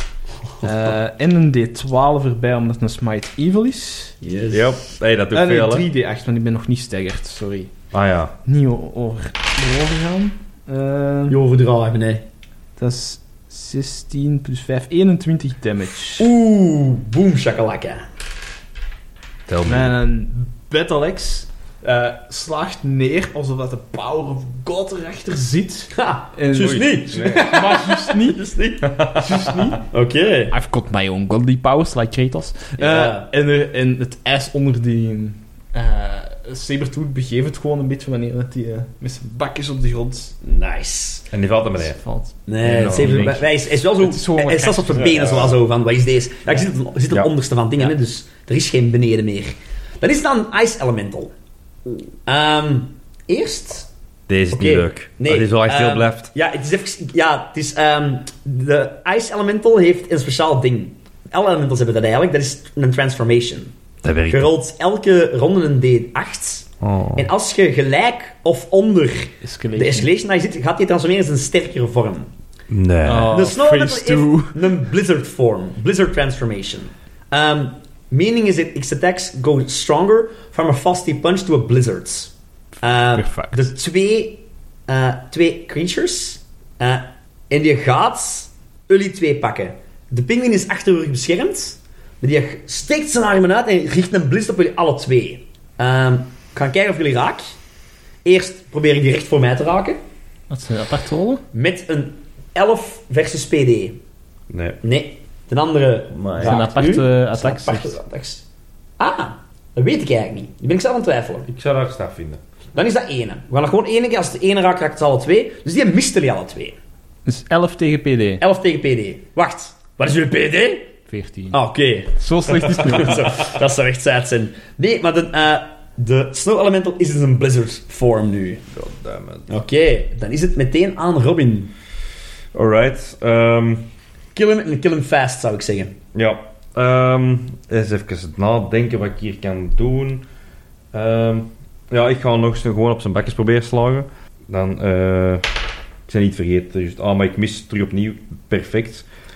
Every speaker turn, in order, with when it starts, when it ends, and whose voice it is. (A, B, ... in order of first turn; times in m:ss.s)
0:00.6-0:04.2 A
0:04.2-0:04.7 B
0:04.5-0:05.8 C
0:05.3-0:07.7 A
0:07.9-0:08.3 C
0:08.4-0:11.4 A
0:11.3-0:12.2 B
0:12.8-0:16.3 A
0:16.2-0:18.0 B
0:19.5-0:19.9 C
0:19.6-0:28.5 A
0:25.9-0:28.9 B
0:26.6-0:27.5 C
0:28.8-0:29.6 C
0:29.2-0:29.8 A
0:29.8-0:30.5 B
0:30.5-0:40.3 A
0:32.8-0:33.3 B
0:40.4-0:41.3 B
0:41.3-0:42.0 C
0:41.8-0:45.4 A
0:42.5-0:51.3 B
0:42.7-0:43.2 C
0:45.2-0:45.5 C
0:51.8-0:53.9 B
0:54.3-0:56.3 C
0:54.5-1:03.7 B
1:04.0-1:04.5 C
1:04.3-1:12.3 B
1:06.8-1:07.3 C
1:09.4-1:10.1 A
1:12.7-1:13.5 C
1:13.0-1:14.8 A
1:13.3-1:37.5 B
1:22.8-1:23.6 A
1:38.2-1:40.0 B
1:40.5-1:41.4 A
1:41.5-1:44.0 B
1:44.5-1:44.8 C
1:44.8-1:48.4 B
1:46.1-1:46.6 C
1:46.4-1:48.0 A
1:49.0-1:51.5 B
1:51.5-1:52.4 C
1:52.7-1:56.8 B
1:57.2-1:58.4 A
1:58.4-2:00.9 B
2:01.1-2:01.6 A
2:01.5-2:08.6 B
2:02.2-2:03.4 A
2:08.7-2:09.5 C
2:09.5-2:11.7 B
2:12.5-2:13.8 C
2:14.3-2:15.9 B
2:16.1-2:20.2 C
2:20.9-2:25.5 C
2:26.1-2:29.0 C